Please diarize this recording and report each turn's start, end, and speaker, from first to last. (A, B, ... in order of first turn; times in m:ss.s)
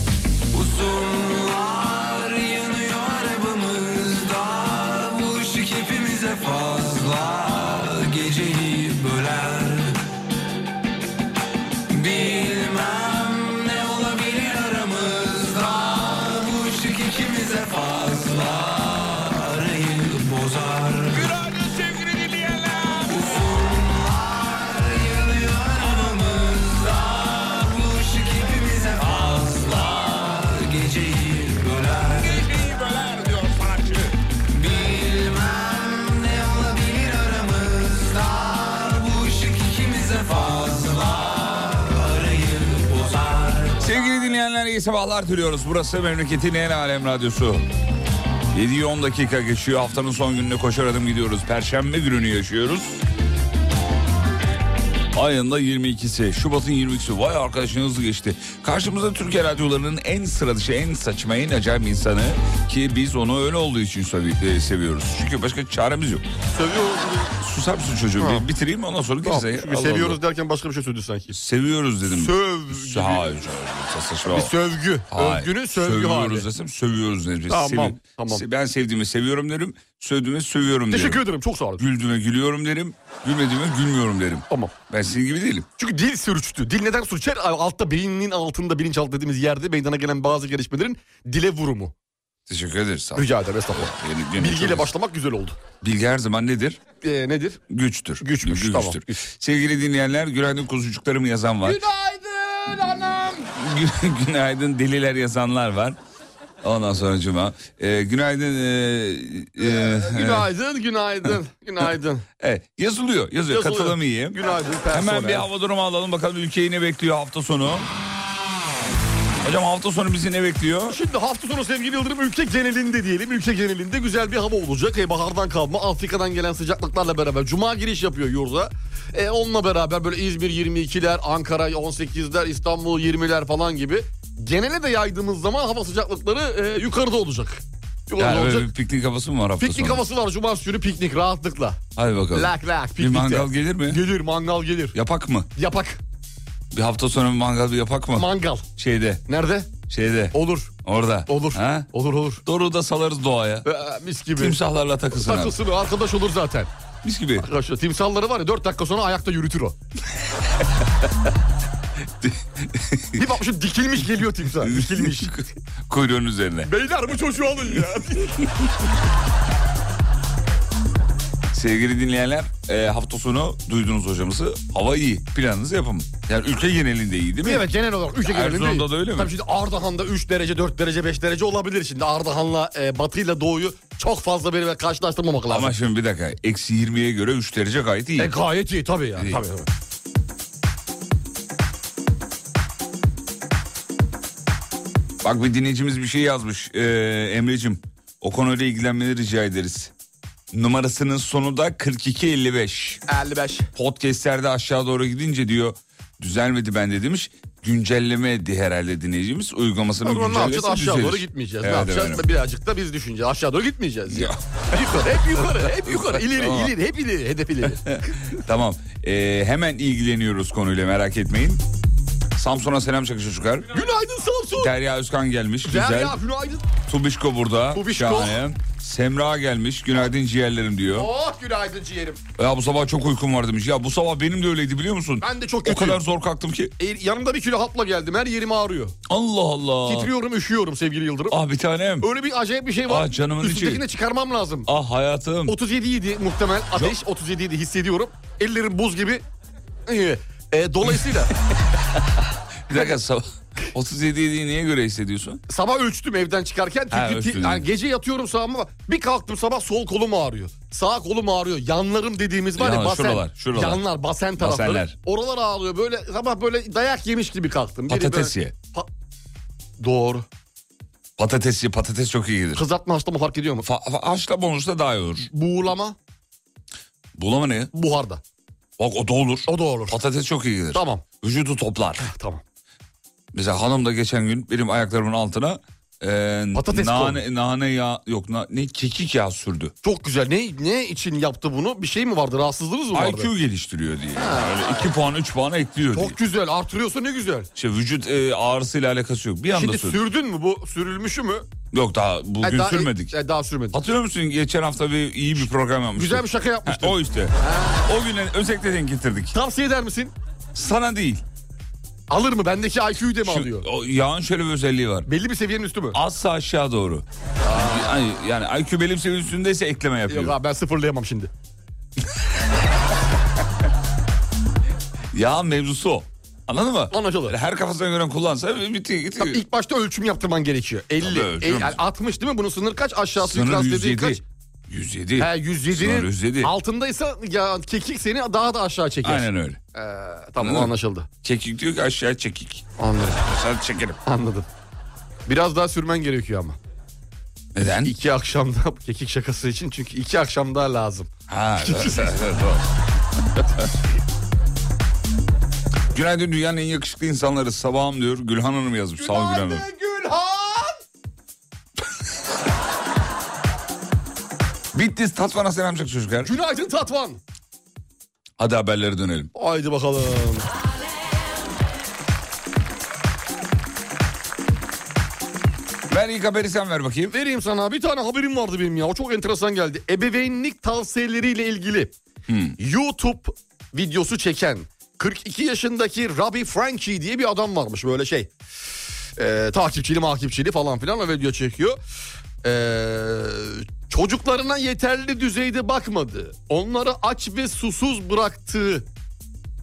0:00.5-0:10.0 A
0:11.9-0:21.3 A
0:21.2-0:23.1 B
0:23.0-0:32.4 A
0:32.1-0:34.2 B
0:34.5-0:44.0 A
0:43.8-0:47.6 B
0:48.5-0:53.0 B
0:55.1-1:06.2 B
1:06.5-1:07.3 C
1:07.4-1:10.2 B
1:08.2-1:08.4 C
1:09.2-1:11.3 C
1:11.3-1:14.5 B
1:12.1-1:13.3 C
1:14.3-1:16.4 C
1:15.1-1:21.2 B
1:17.5-1:18.4 C
1:20.9-1:21.8 C
1:21.8-1:25.7 B
1:25.8-1:31.9 C
1:32.5-1:34.9 B
1:33.2-1:35.6 C
1:35.8-1:36.8 B
1:37.0-1:37.6 C
1:37.7-1:41.8 B
1:38.2-1:39.2 C
1:41.6-1:43.5 C
1:43.5-1:46.0 B
1:46.6-1:50.5 B
1:49.6-1:52.2 C
1:52.4-1:57.9 B
1:53.5-1:55.4 C
1:59.4-2:01.0 B
2:00.9-2:18.7 C
2:18.2-2:20.0 B
2:19.6-2:21.8 C
2:22.0-2:24.0 B
2:22.3-2:25.0 C
2:24.9-2:25.5 B
2:25.6-2:26.0 C
2:26.7-2:29.2 B
2:28.1-2:28.6 C
2:29.3-2:29.7 C
2:29.9-2:31.9 B
2:30.3-2:30.7 C
2:31.3-2:32.4 C
2:32.4-2:33.7 B
2:33.6-2:34.6 C
2:34.3-2:35.6 B
2:35.2-2:36.7 C
2:37.0-2:37.5 B
2:37.4-2:39.7 C
2:42.2-2:43.2 B
2:43.2-2:45.4 C
2:44.6-2:46.7 B
2:46.6-2:48.5 C
2:51.5-2:57.7 B
2:57.4-3:05.7 C
2:58.2-2:59.3 B
3:05.5-3:08.4 B
3:08.2-3:09.7 C
3:09.2-3:09.4 B
3:15.2-3:19.9 B
3:20.5-3:23.0 B
3:23.1-3:23.7 C
3:23.7-3:32.3 B
3:30.0-3:38.0 C
3:34.1-3:34.8 B
3:35.3-3:36.7 B
3:37.7-3:41.6 B
3:42.4-3:43.7 B
3:43.7-3:44.7 C
3:44.6-3:46.2 B
3:45.6-3:46.6 C
3:46.8-3:51.1 B
3:47.7-3:48.4 C
3:50.9-3:52.2 C
3:52.4-3:56.7 B
3:55.2-3:56.0 C
3:56.8-3:58.9 C
3:59.1-4:00.1 B
3:59.8-4:01.4 C
4:01.3-4:02.1 B
4:02.0-4:04.7 C
4:02.8-4:03.8 B
4:04.7-4:05.6 B
4:05.5-4:09.2 C
4:09.9-4:11.4 C
4:11.9-4:15.4 B
4:15.5-4:28.9 C
4:16.9-4:17.6 B
4:22.6-4:23.8 B
4:24.4-4:25.0 B
4:27.9-4:28.5 B
4:29.8-4:30.2 C
4:31.2-4:32.6 B
4:32.5-4:33.6 C
4:33.6-4:35.3 B
4:35.2-4:36.0 C
4:37.2-4:37.7 B
4:37.7-4:38.2 C
4:38.8-4:42.1 B
4:39.5-4:40.0 C
4:40.7-4:41.0 C
4:42.0-4:42.4 C
4:43.3-4:49.7 B
4:46.5-4:47.2 C
4:49.8-4:53.3 C
4:52.9-4:56.2 B
4:54.2-4:54.9 C
4:55.9-4:57.5 C
4:57.6-5:00.0 B
4:59.5-5:01.5 C
5:01.7-5:03.1 B
5:02.4-5:03.8 C
5:03.7-5:09.3 B
5:05.9-5:07.8 C
5:09.3-5:10.1 C
5:10.5-5:11.2 B
5:12.1-5:13.6 C
5:13.2-5:15.1 B
5:15.1-5:16.0 C
5:15.9-5:20.4 B
5:17.4-5:18.0 C
5:20.1-5:21.3 C
5:25.1-5:29.4 B
5:26.9-5:27.3 C
5:29.2-5:34.2 C
5:31.0-5:31.8 B
5:33.2-5:36.5 B
5:35.2-5:41.1 C
5:39.0-5:39.6 B
5:40.4-5:40.7 B
5:41.2-5:42.6 B
5:42.8-5:43.2 C
5:43.2-5:44.0 B
5:44.0-5:44.5 C
5:45.2-5:46.6 C
5:47.5-5:47.9 B
5:47.8-5:52.2 C
5:51.3-5:52.7 B
5:55.9-5:59.6 B
5:59.0-6:00.8 C
6:04.7-6:06.3 B
6:06.2-6:07.2 C
6:08.4-6:09.3 B
6:09.3-6:10.5 C
6:15.9-6:17.1 B
6:17.1-6:21.9 C
6:22.3-6:22.6 B
6:22.6-6:28.3 C
6:29.2-6:31.8 C
6:32.4-6:38.8 C